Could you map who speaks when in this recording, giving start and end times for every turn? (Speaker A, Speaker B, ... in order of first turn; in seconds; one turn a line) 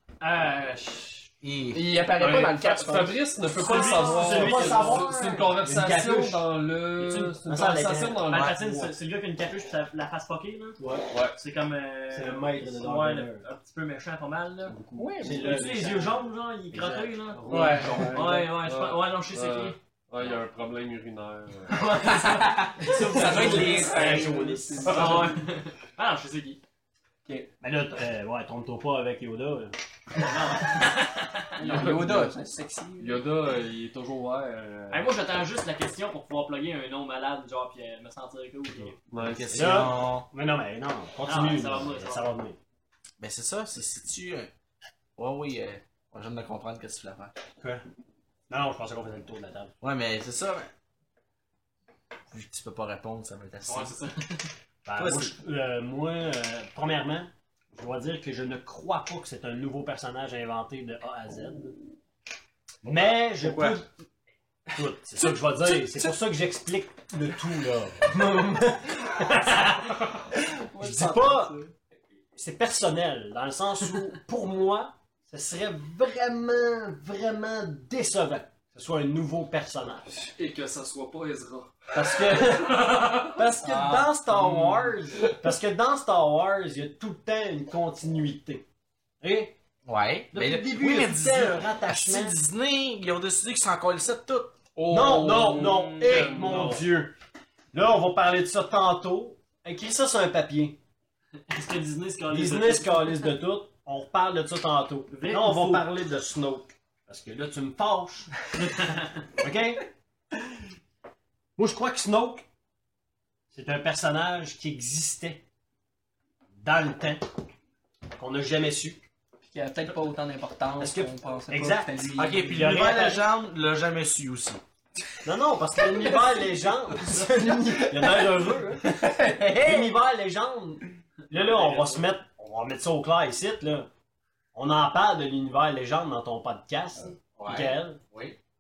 Speaker A: 0.2-1.3
Speaker B: 1.4-1.9
Speaker C: 1.7-3.2
Speaker D: 2.2-3.0
Speaker E: 2.2-8.9
Speaker D: 3.6-6.5
Speaker A: 3.6-5.1
Speaker A: 7.0-7.4
Speaker D: 7.5-8.3
Speaker A: 8.3-10.8
Speaker D: 10.8-11.1
Speaker E: 11.1-11.4
Speaker A: 11.3-19.8
Speaker D: 12.1-13.5
Speaker D: 14.7-18.3
Speaker C: 15.0-15.8
Speaker B: 17.5-18.2
Speaker C: 17.5-18.2
Speaker E: 17.6-22.1
Speaker A: 21.7-24.2
Speaker C: 22.4-25.4
Speaker D: 22.8-25.3
Speaker B: 23.2-23.7
Speaker A: 24.9-26.6
Speaker E: 25.0-25.3
Speaker D: 27.6-29.8
Speaker A: 30.2-31.8
Speaker C: 31.6-33.2
Speaker E: 31.6-32.4
Speaker E: 33.0-35.2
Speaker A: 34.9-39.0
Speaker E: 39.1-39.9
Speaker B: 39.2-40.3
Speaker D: 39.5-42.6
Speaker A: 41.2-42.4
Speaker B: 43.2-44.5
Speaker B: 45.2-47.4
Speaker D: 47.6-47.8
Speaker D: 48.5-49.7
Speaker B: 49.8-50.7
Speaker B: 52.3-54.1
Speaker A: 53.6-54.2
Speaker D: 54.9-61.8
Speaker B: 55.0-55.4
Speaker D: 62.9-63.9
Speaker B: 62.9-63.8
Speaker D: 64.7-71.6
Speaker C: 69.5-69.8
Speaker C: 70.3-71.7
Speaker D: 72.4-80.1
Speaker E: 80.1-83.4
Speaker D: 81.9-88.6
Speaker C: 83.7-84.9
Speaker D: 89.2-89.6
Speaker B: 89.8-94.5
Speaker D: 90.3-92.4
Speaker E: 94.8-96.8
Speaker D: 94.9-97.2
Speaker C: 95.2-96.4
Speaker A: 96.1-96.8
Speaker D: 97.7-100.8
Speaker A: 101.5-103.3
Speaker D: 102.3-109.8
Speaker A: 105.1-105.8
Speaker A: 108.6-109.2
Speaker D: 111.6-112.5
Speaker D: 113.5-115.4
Speaker D: 116.6-117.3
Speaker D: 118.2-119.0
Speaker C: 119.4-122.7
Speaker D: 120.8-123.2
Speaker B: 122.1-124.6
Speaker D: 125.2-133.9
Speaker C: 128.8-129.9
Speaker E: 131.3-131.9
Speaker D: 134.6-138.0
Speaker B: 137.4-138.4